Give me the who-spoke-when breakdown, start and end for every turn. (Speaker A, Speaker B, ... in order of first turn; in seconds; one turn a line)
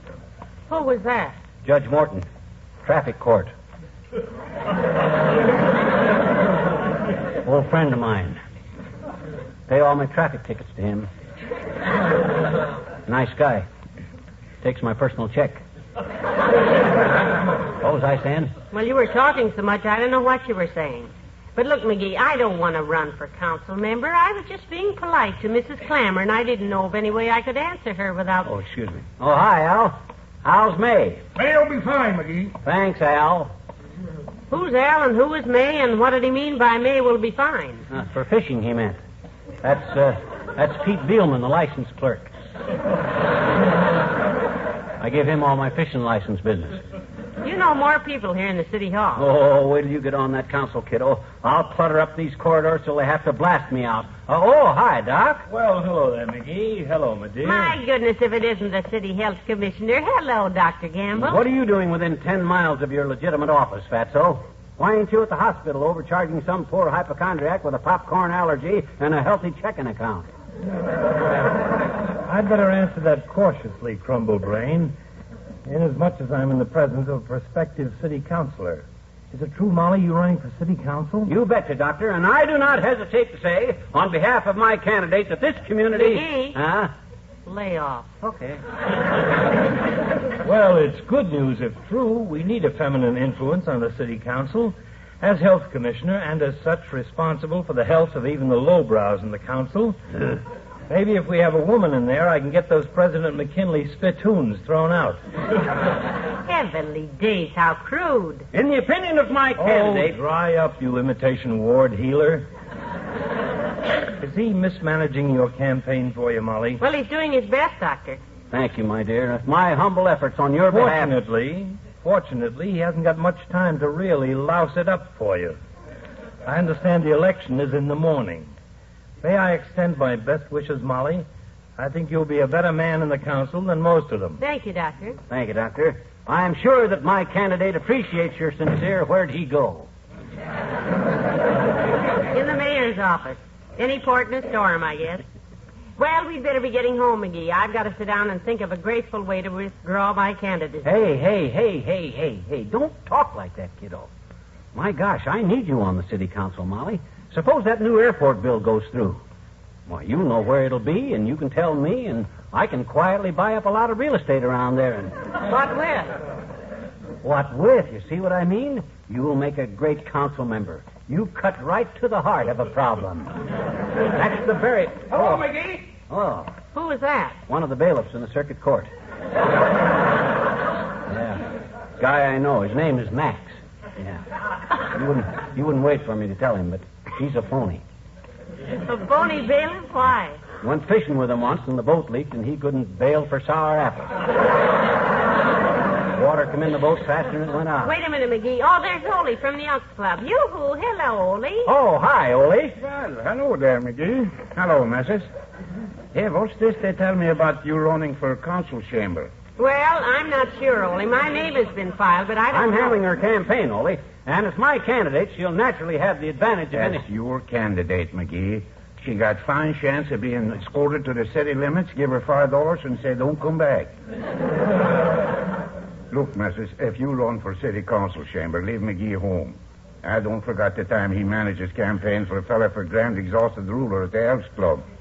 Speaker A: 0.7-1.4
Speaker B: 1.6-2.3
Speaker B: 2.8-3.5
Speaker B: 7.4-8.4
Speaker B: 9.7-11.1
Speaker B: 13.1-13.7
Speaker B: 14.6-15.6
Speaker B: 17.8-18.5
Speaker A: 18.7-28.5
Speaker B: 28.4-31.2
Speaker C: 31.4-32.5
Speaker B: 32.6-33.5
Speaker A: 34.5-37.9
Speaker B: 37.9-39.0
Speaker B: 39.6-42.3
Speaker B: 45.0-46.8
Speaker A: 47.4-49.3
Speaker B: 49.2-55.5
Speaker D: 55.5-57.8
Speaker A: 57.4-61.4
Speaker B: 61.2-70.3
Speaker D: 72.2-74.9
Speaker D: 75.7-81.3
Speaker B: 81.2-86.9
Speaker A: 85.9-86.6
Speaker A: 87.5-88.2
Speaker B: 88.2-88.6
Speaker D: 90.4-105.2
Speaker A: 106.4-108.5
Speaker B: 108.5-110.2
Speaker D: 109.6-112.5
Speaker D: 114.2-116.8
Speaker A: 116.8-118.2
Speaker B: 118.5-121.2
Speaker D: 120.7-125.6
Speaker D: 126.5-128.5
Speaker D: 129.2-131.2
Speaker D: 131.8-134.4
Speaker A: 134.4-135.2
Speaker B: 135.3-139.9
Speaker A: 142.3-145.2
Speaker A: 146.0-151.0
Speaker B: 150.8-154.1
Speaker B: 154.8-159.2
Speaker B: 159.9-165.1
Speaker A: 165.4-166.2
Speaker B: 167.2-173.3
Speaker B: 174.1-176.5
Speaker A: 176.8-177.3
Speaker B: 177.5-178.9
Speaker B: 181.1-181.5
Speaker B: 182.0-184.2
Speaker B: 184.9-187.8
Speaker A: 188.8-190.4
Speaker B: 190.6-194.2
Speaker B: 196.1-197.9
Speaker A: 197.8-201.7
Speaker B: 201.7-202.8
Speaker C: 202.8-205.2
Speaker C: 206.1-209.3
Speaker A: 209.6-213.0
Speaker B: 212.5-217.0
Speaker C: 216.7-223.9
Speaker C: 226.1-234.8